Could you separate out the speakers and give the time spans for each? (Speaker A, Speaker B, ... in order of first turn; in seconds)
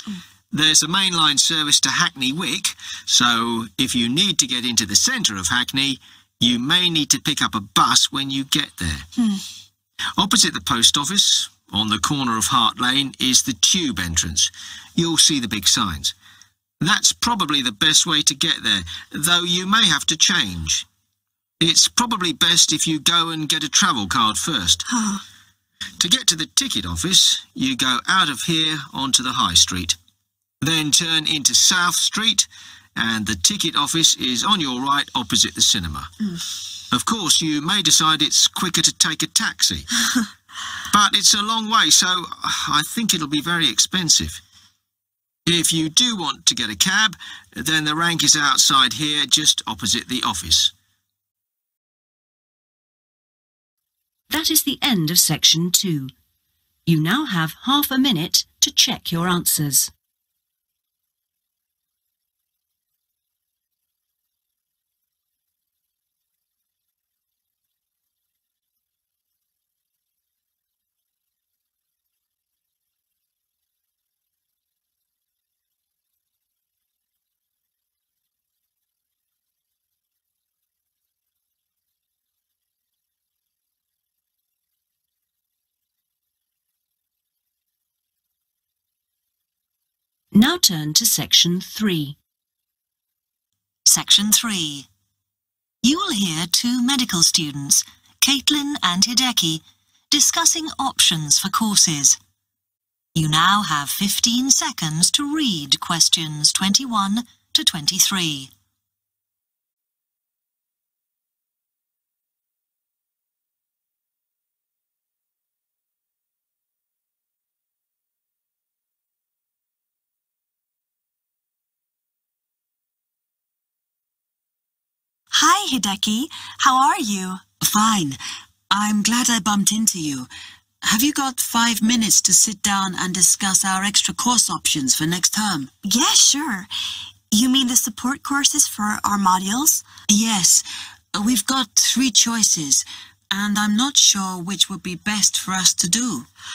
Speaker A: 0.5-9.1, 10.2-16.1, 16.8-20.9, 21.6-24.9, 26.0-30.0, 30.6-36.1, 36.9-39.9, 40.9-44.4, 45.5-50.7
Speaker B: 9.2-9.4, 24.9-25.2, 125.3-127.4, 135.8-136.7, 137.3-139.8
Speaker C: 54.3-56.1, 56.9-59.9, 90.3-92.2
Speaker D: 93.9-94.9, 95.8-102.2, 103.1-108.5
Speaker E: 127.6-130.3, 130.8-135.7, 140.1-146.3